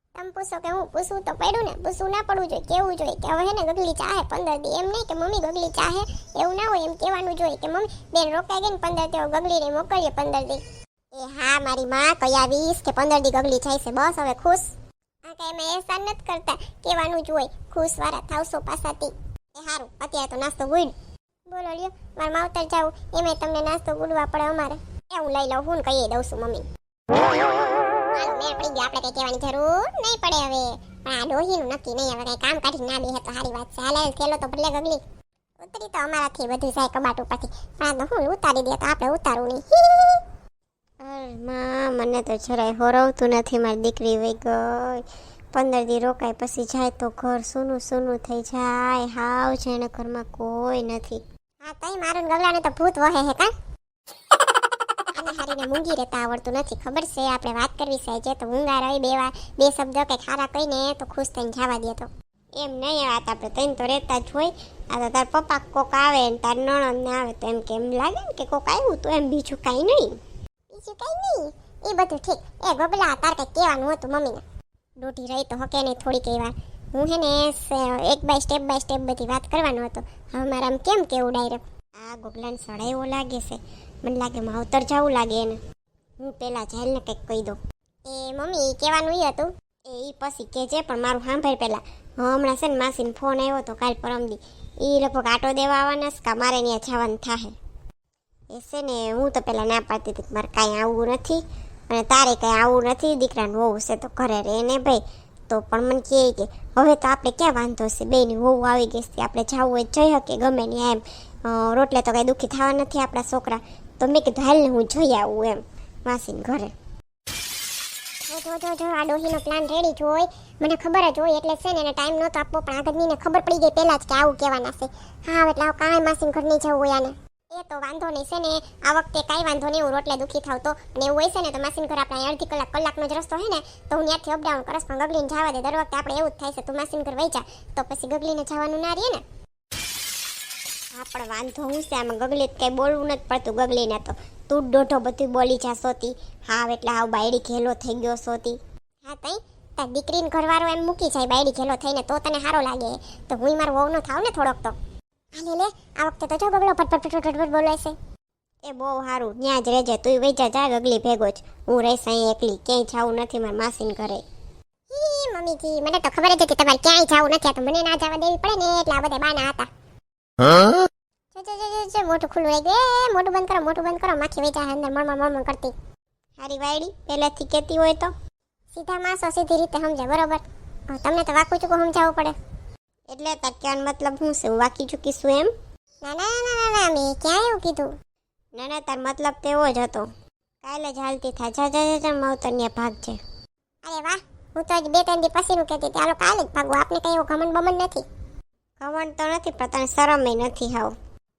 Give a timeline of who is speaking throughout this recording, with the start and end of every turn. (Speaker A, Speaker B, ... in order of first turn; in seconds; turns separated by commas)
Speaker A: 0.1-10.6, Speaker A: 11.1-14.7, Speaker A: 15.2-20.9, Speaker A: 21.5-26.7, Speaker A: 28.1-35.0, Speaker A: 35.6-40.2, Speaker B: 41.0-51.2, Speaker A: 51.6-53.5, Speaker A: 55.1-62.1, Speaker B: 62.5-70.2, Speaker A: 70.7-74.4, Speaker A: 75.0-81.6, Speaker B: 82.0-85.6, Speaker B: 86.2-87.6, Speaker A: 88.0-89.5, Speaker B: 89.9-97.5, Speaker B: 98.5-116.7, Speaker A: 118.3-139.2, Speaker B: 140.9-148.6, Speaker A: 149.0-154.8, Speaker A: 155.3-157.9, Speaker B: 158.6-164.2, Speaker A: 164.9-169.7, Speaker A: 171.3-175.7, Speaker B: 176.4-178.1, Speaker A: 178.7-182.3, Speaker B: 183.1-185.5, Speaker A: 186.0-187.9, Speaker B: 188.5-190.1, Speaker B: 190.6-193.2, Speaker A: 193.8-198.0, Speaker B: 198.8-200.9